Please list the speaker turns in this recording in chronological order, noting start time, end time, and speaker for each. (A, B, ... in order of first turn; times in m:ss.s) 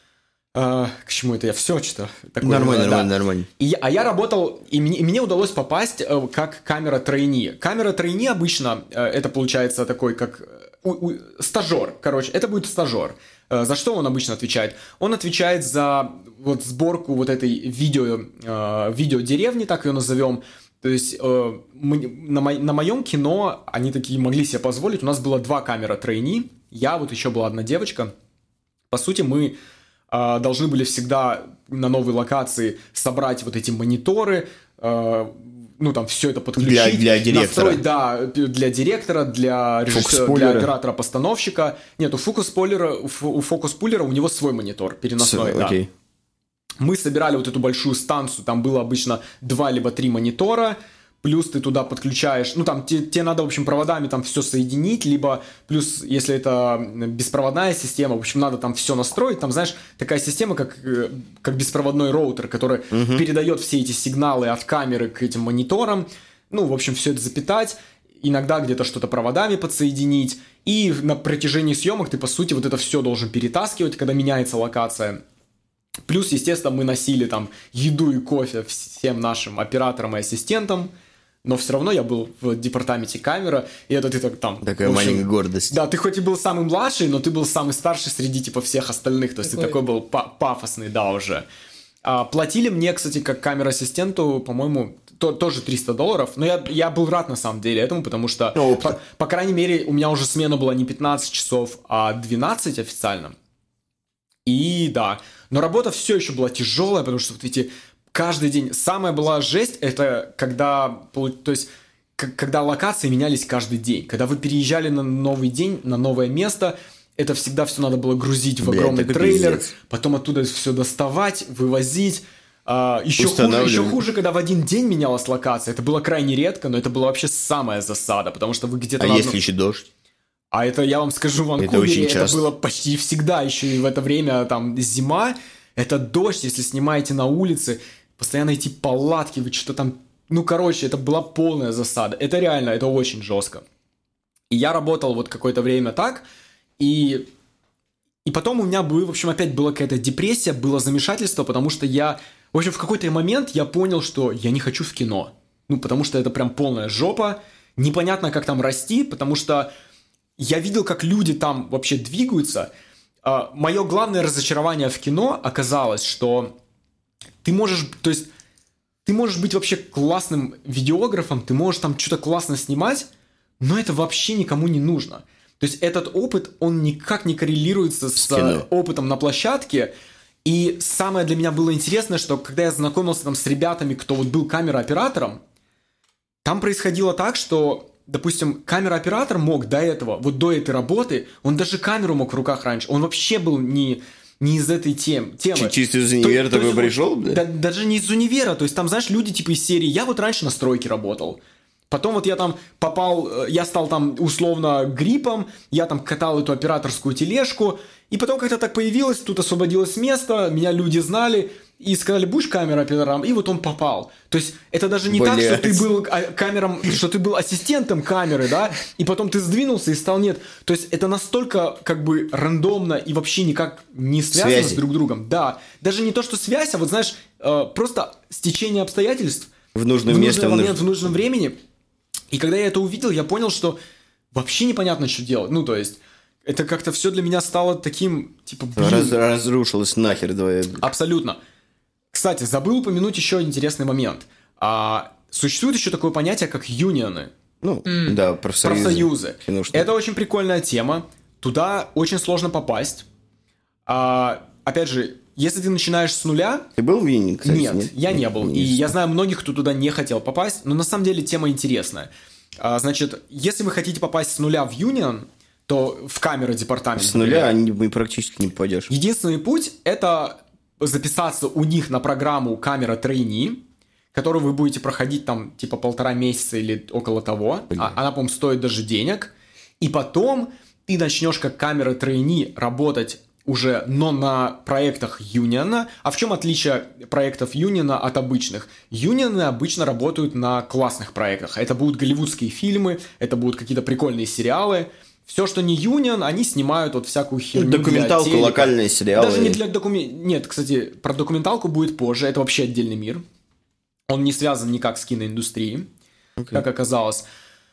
0:00.6-0:28.1 A
0:02.4-0:03.5 B
0:28.9-0:29.6 A
0:30.1-0:45.8 A
0:36.6-0:37.8 B
0:39.9-0:40.7 B
0:45.2-0:45.9 B
0:46.8-1:15.2 A
1:02.9-1:03.3 B
1:16.1-1:20.9 A
1:21.4-1:31.4 A
1:24.6-1:25.8 B
1:32.0-1:43.3 A
1:38.6-1:39.0 B
1:44.4-2:09.4 A
1:58.6-1:59.7 B
2:03.2-2:04.0 B
2:09.0-2:09.9 B
2:10.5-2:23.6 A
2:11.6-2:12.4 B
2:24.5-2:26.2 A
2:26.8-2:27.3 A
2:28.3-2:39.7 A
2:40.4-2:42.7 A
2:43.2-2:46.5 A
2:47.4-2:48.3 A
2:49.0-2:53.1 A
2:53.6-2:59.9 A
2:58.2-2:58.6 B
3:00.4-3:05.4 A
3:06.4-3:21.4 A
3:15.6-3:17.4 B
3:21.9-3:49.5 A
3:35.1-3:35.9 B
3:44.3-3:44.8 B
3:49.7-3:51.0 B
3:50.1-3:51.6 A
3:52.3-3:53.8 A
3:54.3-3:59.2 A
3:58.8-4:00.8 B
4:00.8-4:01.4 A
4:02.1-4:07.3 A
4:07.6-4:09.9 B
4:08.6-4:13.0 A
4:13.9-4:16.7 A
4:16.8-4:18.9 B
4:17.4-4:27.5 A
4:27.0-4:28.9 B
4:28.9-5:03.2 A
4:37.7-4:38.0 B
4:57.6-4:59.6 B
5:04.1-5:05.9 A
5:06.4-5:06.6 B
5:06.5-5:07.2 A